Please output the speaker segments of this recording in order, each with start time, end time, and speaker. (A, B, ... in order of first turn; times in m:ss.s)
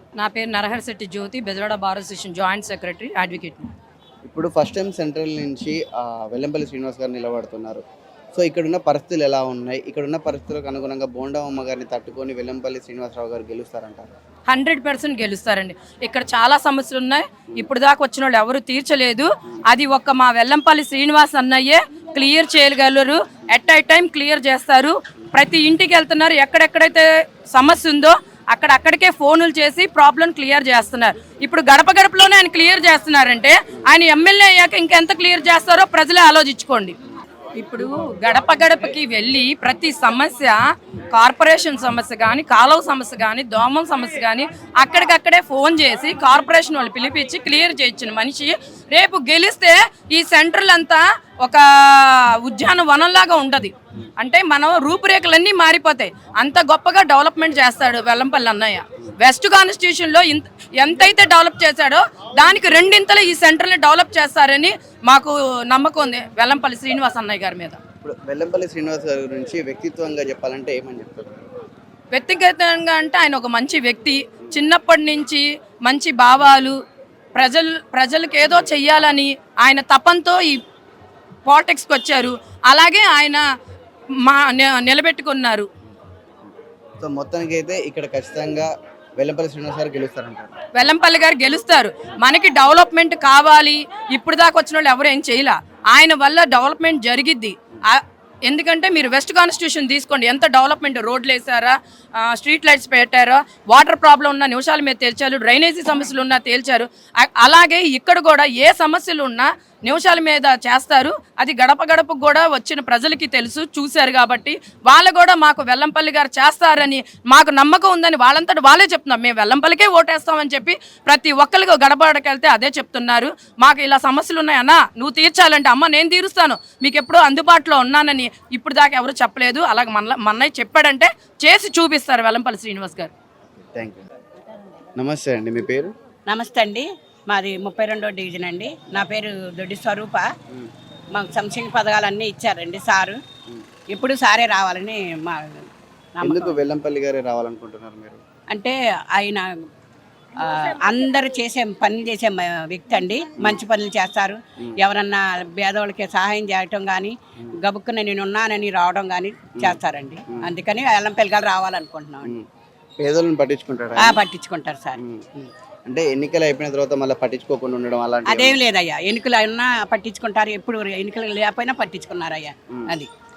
0:00.2-0:03.7 A
0:04.2-0:07.8 B
0:08.3-0:14.1 B
0:14.5-0:37.0 A
0:37.6-0:40.6 A
0:41.1-1:07.8 A
1:08.0-1:11.5 B
1:12.1-1:16.8 A
1:17.3-1:20.6 A
1:21.4-1:23.4 A
1:24.2-1:25.7 A
1:27.0-1:30.5 B
1:30.7-2:13.1 A
2:13.7-2:14.0 B
2:15.0-2:15.9 B
2:16.3-2:20.3 C
2:21.1-2:23.2 C
2:23.9-2:25.6 C
2:26.2-2:26.6 C
2:26.2-2:28.2 B
2:28.5-2:29.5 C
2:30.4-2:42.3 C
2:39.5-2:40.5 B
2:43.0-2:44.2 B
2:44.0-2:45.5 C
2:45.0-2:45.3 B
2:45.9-2:48.6 B
2:48.3-2:53.1 C
2:52.7-2:53.0 B